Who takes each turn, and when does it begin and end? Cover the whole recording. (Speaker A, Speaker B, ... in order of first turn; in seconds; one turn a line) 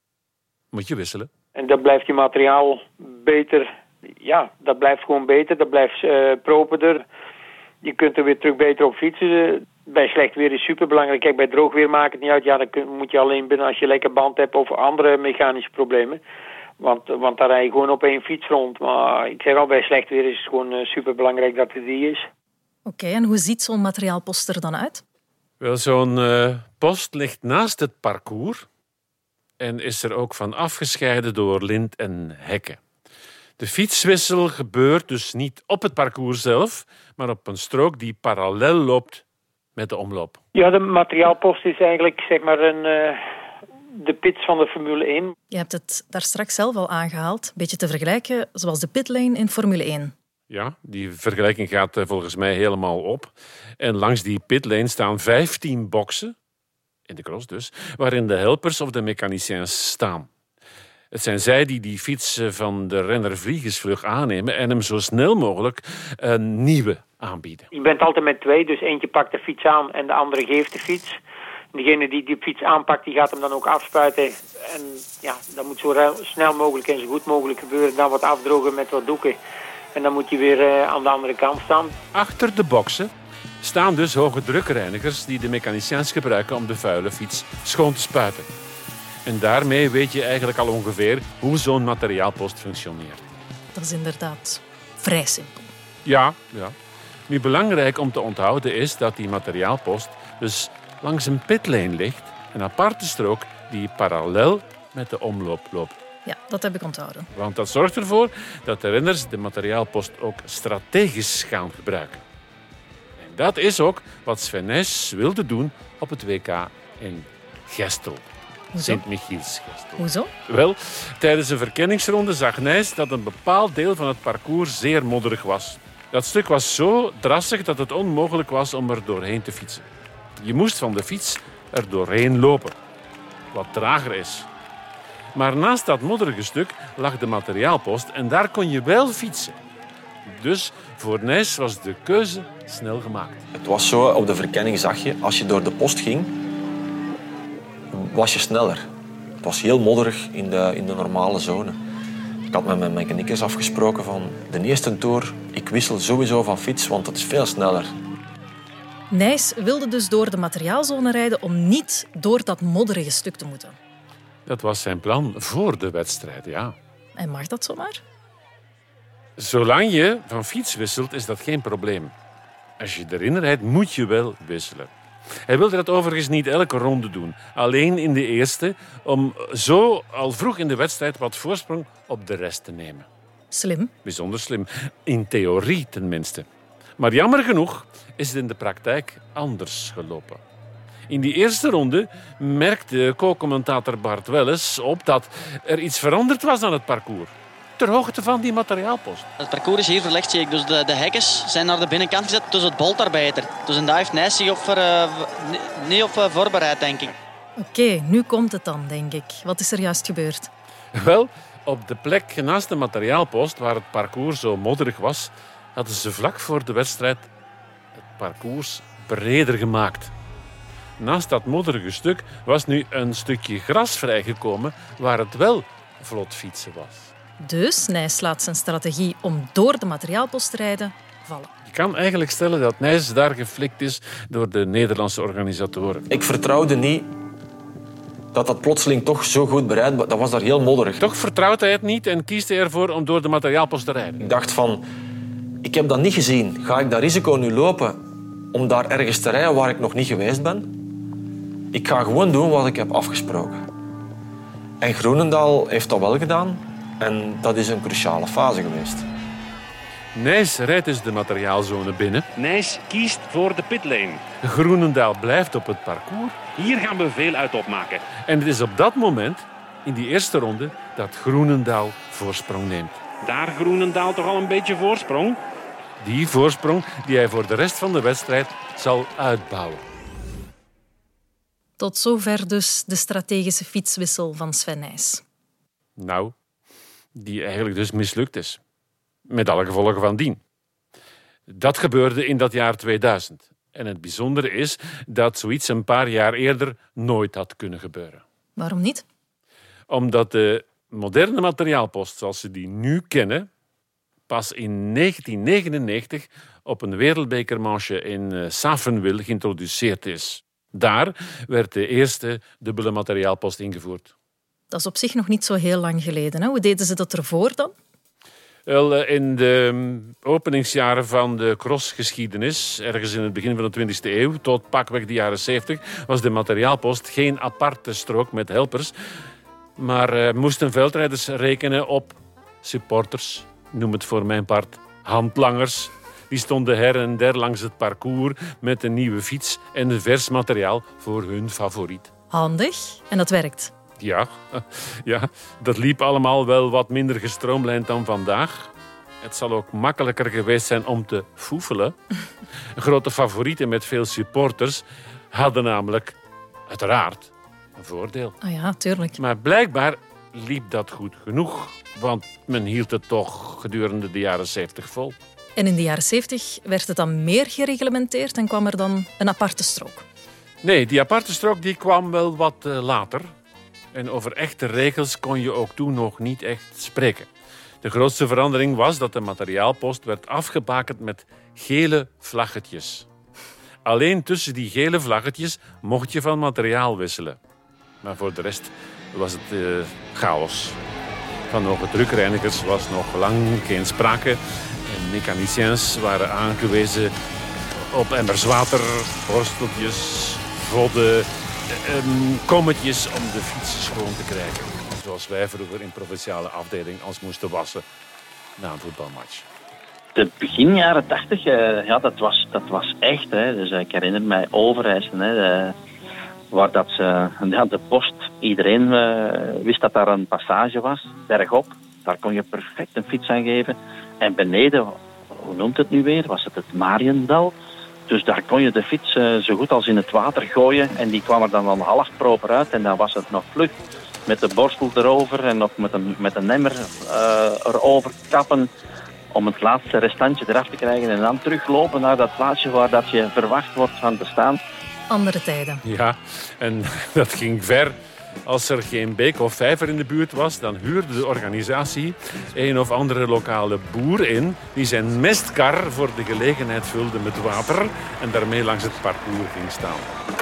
Speaker A: 0.7-1.3
Speaker B: 1.6-7.1
Speaker B: 7.8-16.2
Speaker B: 16.8-22.3
Speaker C: 22.9-25.0
Speaker A: 25.6-28.7
Speaker A: 29.6-32.8
Speaker A: 33.6-39.2
Speaker A: 39.8-40.4
Speaker B: 40.5-43.2
Speaker B: 43.9-45.3
Speaker C: 45.5-50.1
Speaker A: 50.5-56.4
Speaker A: 57.1-60.3
Speaker A: 61.1-67.7
Speaker B: 67.7-71.2
Speaker B: 71.7-79.4
Speaker B: 79.9-82.0
Speaker A: 82.1-83.1
Speaker A: 83.6-88.5
Speaker A: 89.2-93.3
Speaker C: 93.7-95.7
Speaker A: 96.0-96.8
Speaker A: 97.3-106.0
Speaker C: 106.3-107.3
Speaker A: 107.3-112.2
Speaker A: 113.2-118.2
Speaker C: 118.8-119.0
Speaker A: 118.8-129.9
Speaker C: 120.0-120.3
Speaker A: 130.4-132.8
Speaker A: 133.5-134.5
Speaker A: 135.3-139.6
Speaker A: 140.3-143.4
Speaker D: 143.6-146.3
Speaker D: 147.9-148.9
Speaker D: 149.4-151.8
Speaker D: 152.5-157.9
Speaker C: 159.1-163.8
Speaker A: 164.5-166.8
Speaker C: 167.2-168.0
Speaker A: 169.4-172.1
Speaker A: 172.8-174.9
Speaker A: 175.5-183.1
Speaker C: 183.5-183.9
Speaker A: 184.1-186.5
Speaker A: 187.0-190.4
Speaker A: 191.1-199.3
Speaker E: 199.4-207.1
Speaker C: 207.6-210.5
Speaker A: 210.9-217.3
Speaker A: 218.1-220.1
Speaker A: 221.0-227.1
Speaker C: 227.4-231.5
Speaker A: 231.7-236.1
Speaker D: 236.1-237.1
Speaker D: 238.3-241.0
Speaker A: 241.0-244.2
Speaker D: 244.2-244.8
Speaker D: 245.6-248.0
Speaker D: 248.5-250.7
Speaker D: 251.7-253.6
Speaker D: 254.8-259.1
Speaker A: 260.1-262.3
Speaker F: 262.4-264.3
Speaker A: 264.4-266.4
Speaker F: 266.5-268.2
Speaker A: 268.2-273.0
Speaker F: 273.2-275.4
Speaker A: 276.0-279.8
Speaker C: 281.8-285.2
Speaker A: 286.0-286.3
Speaker A: 287.1-288.6
Speaker A: 289.3-290.4
Speaker A: 291.5-298.2
Speaker C: 298.6-299.1
Speaker A: 299.9-303.5
Speaker A: 304.3-314.1
Speaker C: 314.7-317.8
Speaker A: 318.7-328.9
Speaker A: 329.8-342.1
Speaker C: 342.3-343.7
Speaker A: 344.0-348.7
Speaker A: 349.2-351.9
Speaker A: 352.8-356.2
Speaker A: 356.7-358.4
Speaker C: 358.4-359.2
Speaker A: 359.2-365.2
Speaker C: 365.6-370.1
Speaker A: 370.6-373.3
Speaker A: 373.9-377.3
Speaker A: 377.8-383.1
Speaker A: 383.9-387.4
Speaker A: 388.0-390.8
Speaker A: 391.5-397.1
Speaker A: 397.8-407.8
Speaker A: 408.6-409.5
Speaker G: 410.1-415.7
Speaker G: 416.5-427.5
Speaker G: 428.1-438.7
Speaker G: 439.3-444.6
Speaker C: 445.1-445.8
Speaker A: 445.9-460.2